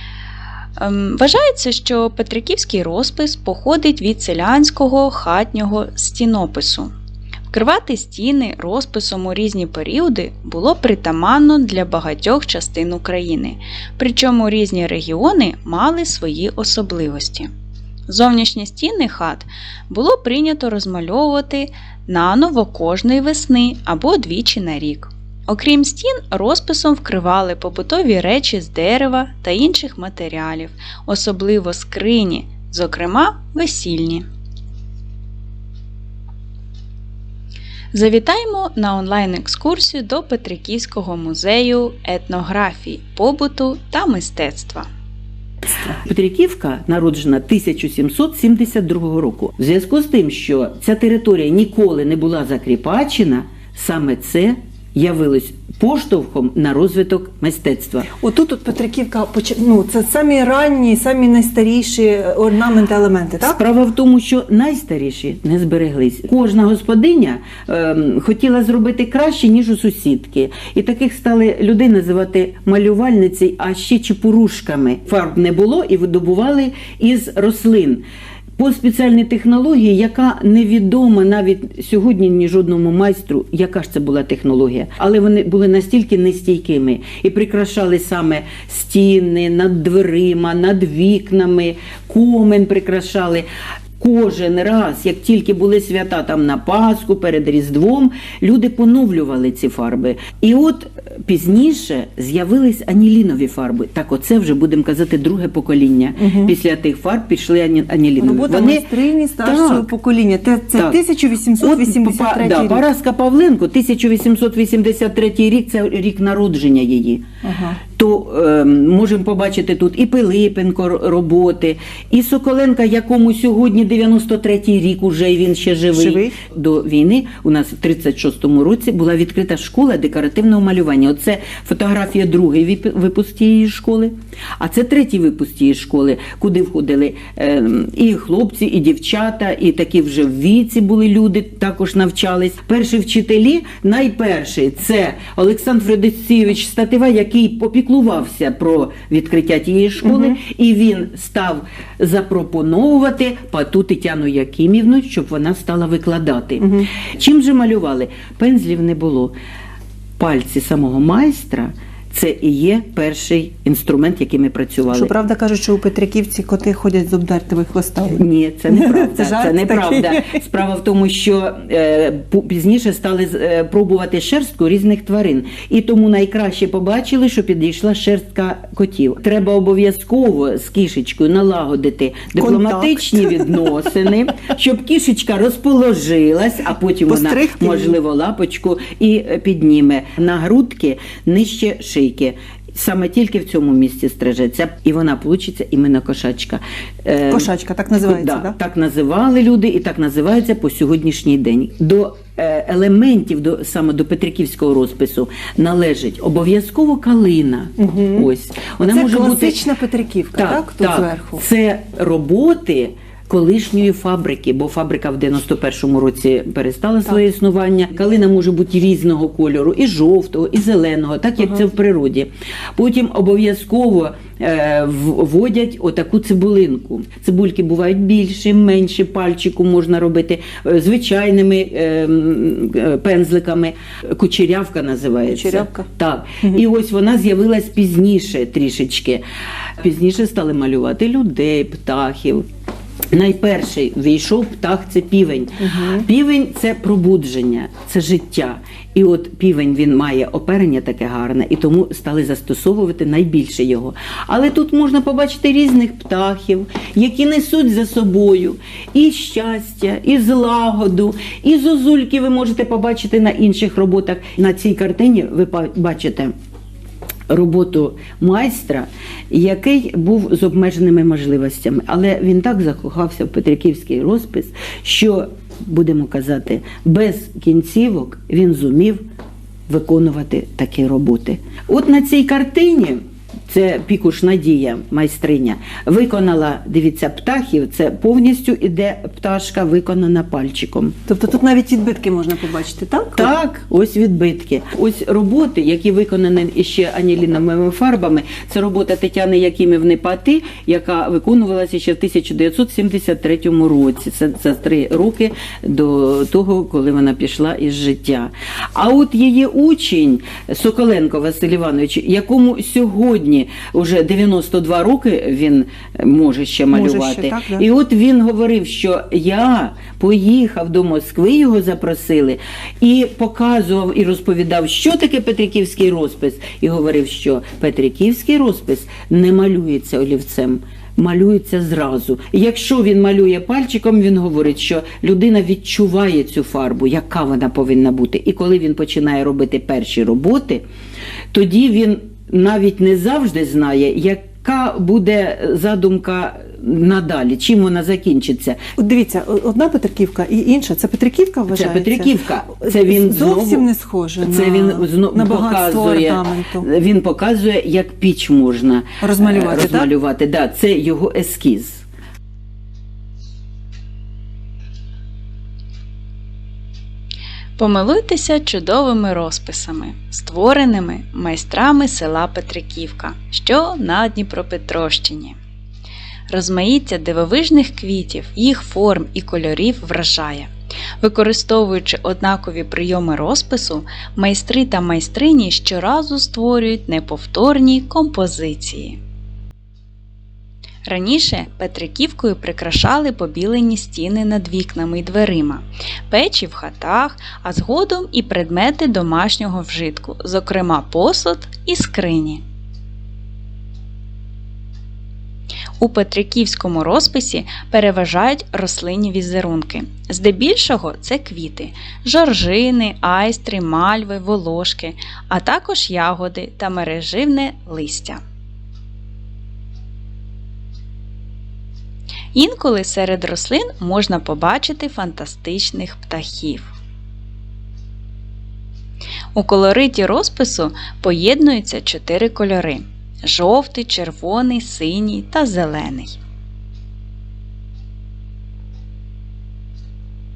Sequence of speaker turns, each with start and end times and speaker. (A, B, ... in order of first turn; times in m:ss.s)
0:00.8-0:06.9 A
0:07.5-0:17.5 A
0:18.1-0:34.3 A
0:37.9-0:44.9 A
0:45.9-0:58.1 B
0:58.1-1:03.6 C
1:03.4-1:18.0 B
1:18.6-1:33.5 B
1:34.0-1:48.9 B
1:46.2-1:46.5 C
1:48.2-1:52.9 C
1:49.4-1:49.9 B
1:51.6-1:57.2 B
1:57.4-1:57.8 C
1:57.9-2:39.4 B
2:05.9-2:06.3 C
2:30.1-2:30.4 C
2:36.6-2:36.9 C
2:40.2-2:45.1 B
2:44.9-2:50.4 C
2:48.1-3:17.5 B
3:02.4-3:03.7 C
3:07.1-3:08.0 C
3:17.3-3:18.6 C
3:18.0-3:29.6 B
3:27.8-3:31.4 C
3:30.4-3:59.2 B
3:55.3-3:55.9 C
3:59.8-4:02.5 B
4:03.1-4:26.3 B
4:05.6-4:06.0 C
4:27.3-4:39.0 B
4:39.7-4:51.0 B
4:51.1-4:53.3 C
4:53.2-5:40.6 B
5:16.7-5:17.6 C
5:41.3-5:48.6 B
5:48.8-5:56.7 C
5:51.5-5:53.7 B
5:54.2-6:01.8 B
5:59.0-5:59.9 C
6:07.6-6:15.4 A
6:16.3-6:29.0 A
6:30.9-6:42.4 A
6:45.8-6:58.2 A
7:02.3-7:06.8 A
7:09.4-7:16.2 A